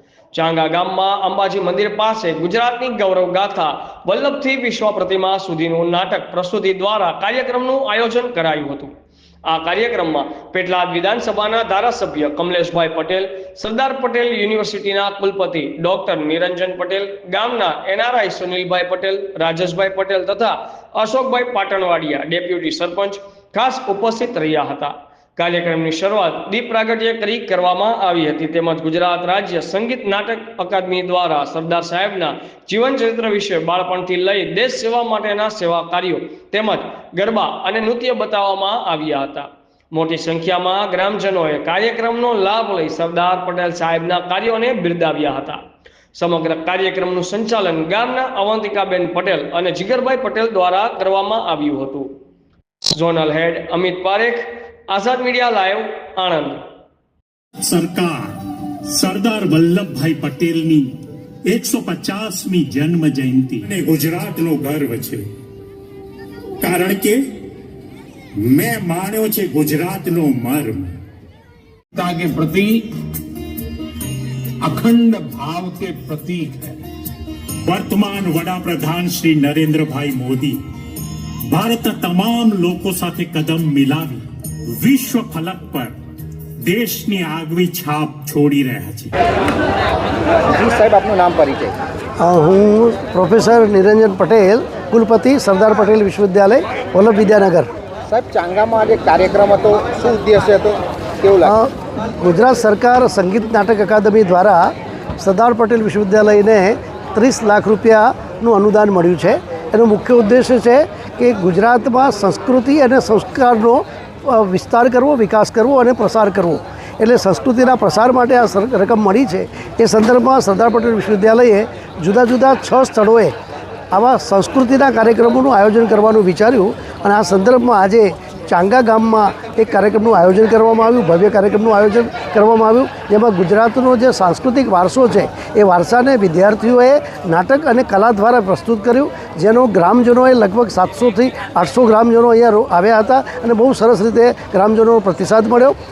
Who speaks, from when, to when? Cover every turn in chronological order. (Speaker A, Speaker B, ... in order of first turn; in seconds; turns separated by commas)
Speaker A: 0.3-8.9, Speaker A: 9.5-45.6, Speaker A: 46.1-52.1, Speaker A: 52.9-56.6, Speaker B: 57.7-58.3, Speaker B: 58.9-60.9, Speaker B: 61.5-65.2, Speaker B: 66.6-67.2, Speaker B: 68.4-70.9, Speaker C: 72.0-72.8, Speaker C: 74.6-76.8, Speaker B: 77.6-80.6, Speaker B: 81.5-84.2, Speaker B: 84.8-86.0, Speaker B: 86.6-89.1, Speaker D: 90.5-91.8, Speaker E: 92.2-97.7, Speaker D: 98.1-101.5, Speaker E: 101.4-123.3, Speaker E: 123.9-145.8